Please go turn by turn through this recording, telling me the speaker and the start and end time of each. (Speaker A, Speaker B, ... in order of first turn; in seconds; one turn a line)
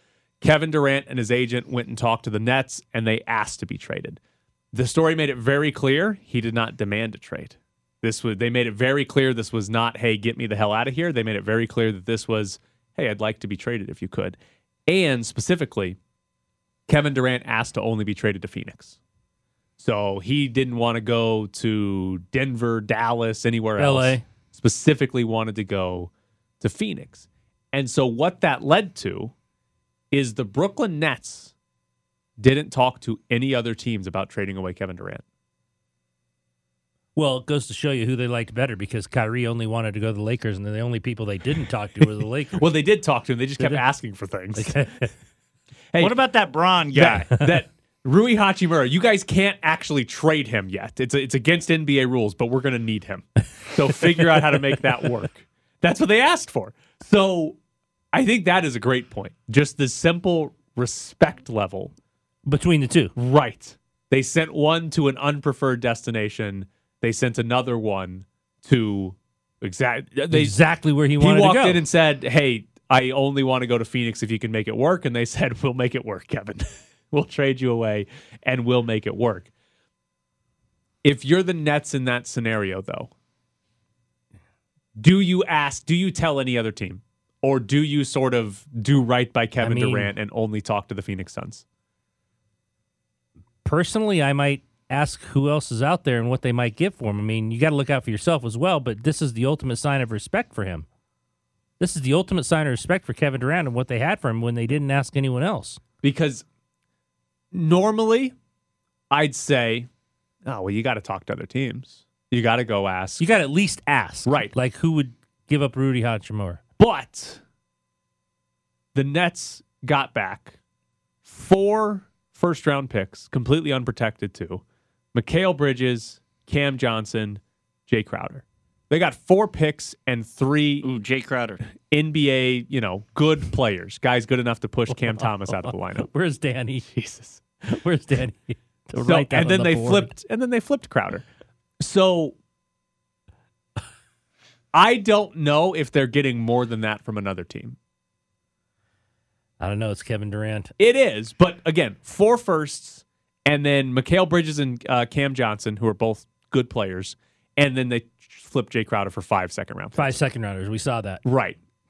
Speaker A: 0.4-4.2
Speaker A: 4.7-16.0
Speaker A: 16.9-19.0
Speaker A: 19.8-29.3
Speaker B: 23.8-24.2
Speaker A: 30.1-31.5
Speaker A: 32.4-35.2
Speaker B: 37.1-42.6
Speaker A: 42.5-45.1
Speaker B: 44.5-45.1
Speaker A: 45.9-46.2
Speaker C: 46.0-47.3
Speaker A: 46.9-57.6
Speaker A: 58.1-61.9
Speaker B: 62.5-63.1
Speaker A: 63.1-70.6
Speaker B: 70.3-71.8
Speaker A: 71.2-79.5
Speaker A: 81.0-83.1
Speaker A: 85.0-91.6
Speaker B: 89.6-90.1
Speaker B: 93.6-100.8
Speaker B: 101.8-105.8
Speaker A: 106.0-106.4
Speaker A: 107.5-108.3
Speaker A: 109.1-109.9
Speaker A: 110.5-113.3
Speaker B: 113.2-116.6
Speaker A: 114.2-114.5
Speaker A: 116.8-117.4
Speaker A: 118.9-120.5
Speaker A: 121.2-124.6
Speaker A: 125.1-130.9
Speaker C: 130.8-131.6
Speaker A: 131.9-136.1
Speaker B: 135.0-136.9
Speaker A: 136.9-137.4
Speaker B: 137.7-140.1
Speaker A: 139.0-141.2
Speaker A: 141.8-142.3
Speaker A: 144.7-147.8
Speaker B: 149.6-150.7
Speaker A: 150.8-160.2
Speaker B: 159.9-161.2
Speaker A: 161.2-161.6